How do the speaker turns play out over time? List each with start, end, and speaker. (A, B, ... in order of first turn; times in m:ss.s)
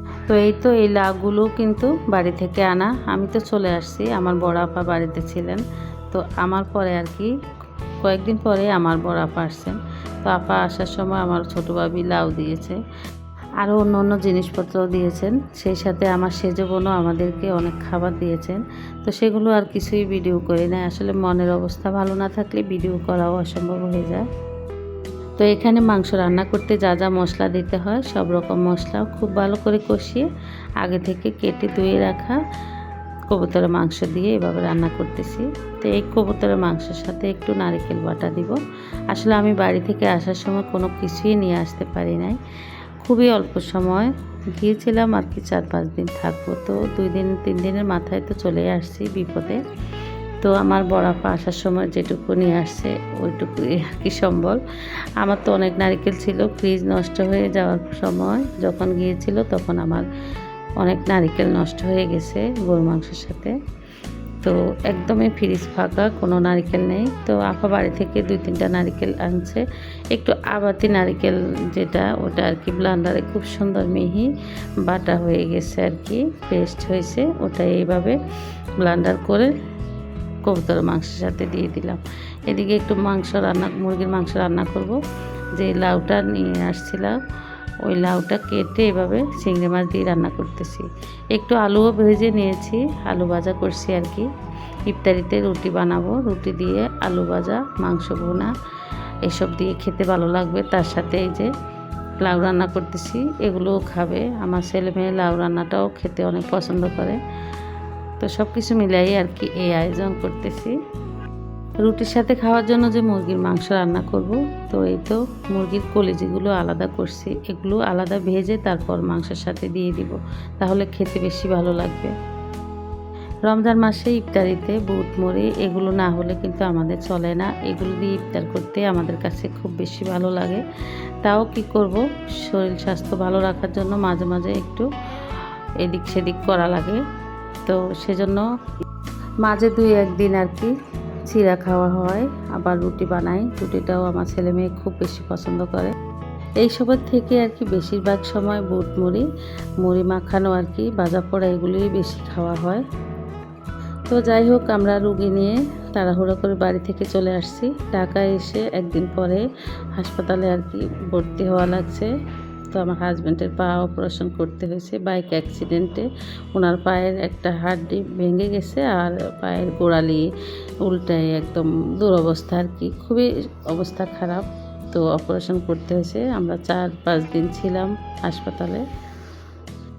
0:00.3-0:07.3 A
0:08.0-0:12.8 A
0:13.6-0:24.2 A
0:25.4-0:30.3 A
0:30.8-0:32.4 A
0:33.3-0:38.6 A
0:39.1-0:42.4 A
0:43.0-0:49.6 A
0:50.4-0:54.6 A
0:55.2-1:00.0 A
1:00.8-1:03.5 A
1:04.4-1:14.3 A
1:14.8-1:18.2 A
1:18.8-1:19.5 A
1:20.4-1:25.0 A
1:25.6-1:27.2 A
1:27.8-1:34.3 A
1:34.9-1:38.5 A
1:39.2-1:41.5 A
1:42.2-1:47.2 A
1:48.2-1:50.8 A
1:51.8-2:02.1 A
2:03.5-2:10.6 A
2:11.2-2:14.9 A
2:15.8-2:17.0 A
2:17.6-2:18.4 A
2:19.4-2:20.7 A
2:21.2-2:25.9 A
2:26.6-2:29.2 A
2:29.8-2:32.8 A
2:34.1-2:39.4 A
2:40.0-2:42.1 A
2:42.7-2:50.2 A
2:50.8-2:58.8 A